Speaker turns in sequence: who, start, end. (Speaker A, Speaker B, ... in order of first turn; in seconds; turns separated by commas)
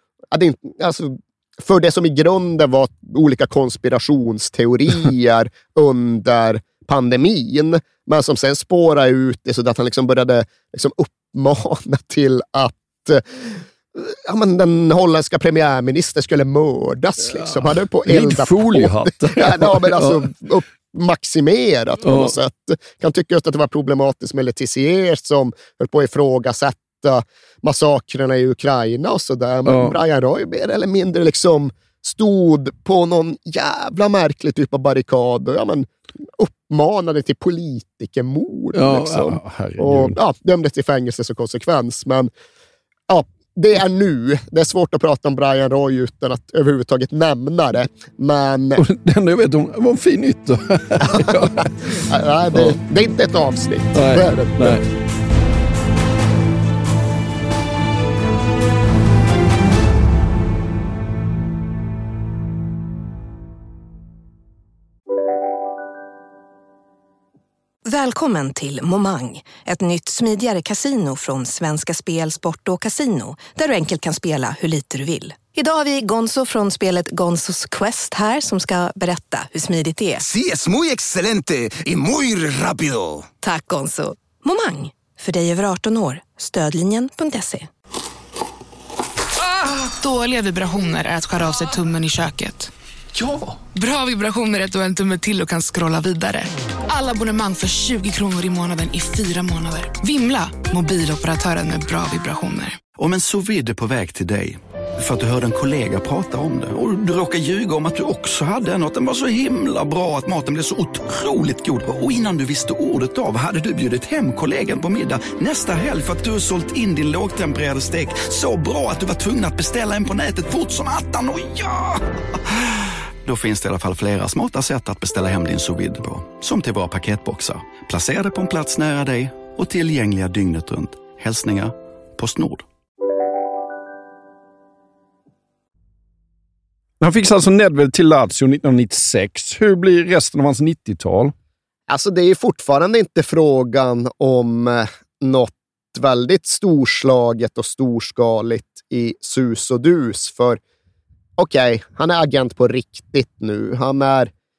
Speaker A: 0.3-42.3, Speaker B: 18.0-20.3, Speaker B: 22.0-22.3, Speaker B: 29.6-30.0, Speaker B: 38.7-40.2, Speaker A: 43.1-48.8, Speaker B: 48.8-51.9, Speaker A: 51.0-54.8, Speaker B: 52.5-52.8, Speaker B: 53.9-54.8, Speaker C: 67.8-80.2, Speaker D: 80.2-83.3, Speaker C: 83.4-87.7, Speaker E: 89.9-92.7, Speaker E: 93.7-102.8, Speaker F: 102.9-122.0, Speaker F: 123.2-132.7, Speaker B: 137.0-141.3, Speaker A: 141.9-150.6, Speaker A: 151.4-154.3